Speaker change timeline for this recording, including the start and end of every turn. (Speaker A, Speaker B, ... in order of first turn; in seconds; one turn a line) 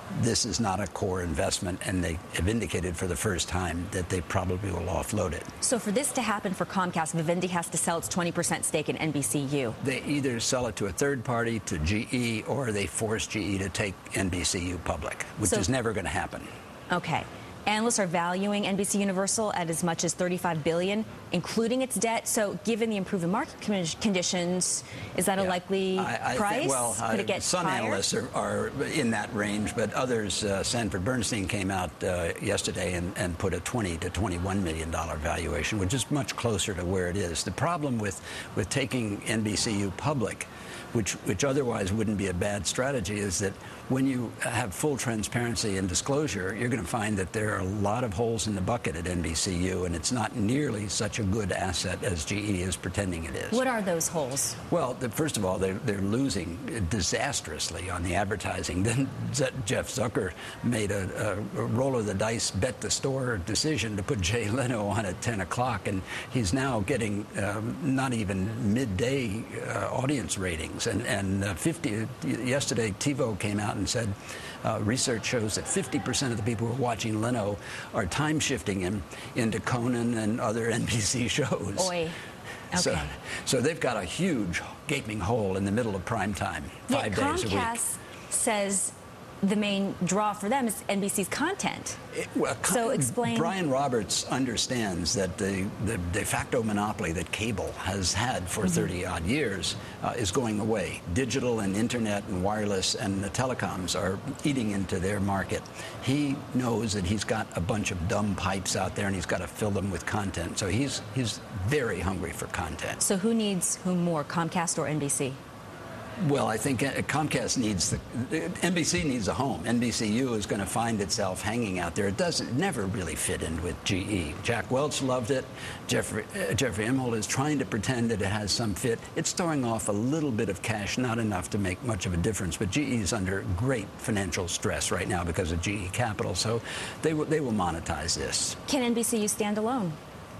Speaker A: 0.1-5.5
Speaker B: 5.6-9.8
Speaker A: 9.8-16.5
Speaker B: 16.9-28.0
Speaker A: 25.4-53.6
Speaker B: 53.5-54.6
Speaker A: 54.7-81.9
Speaker B: 81.8-82.2
Speaker B: 82.7-83.1
Speaker A: 82.7-87.8
Speaker B: 86.9-92.0
Speaker A: 92.1-113.0
Speaker B: 92.7-93.5
Speaker B: 113.0-115.4
Speaker A: 116.2-138.6
Speaker B: 138.7-140.0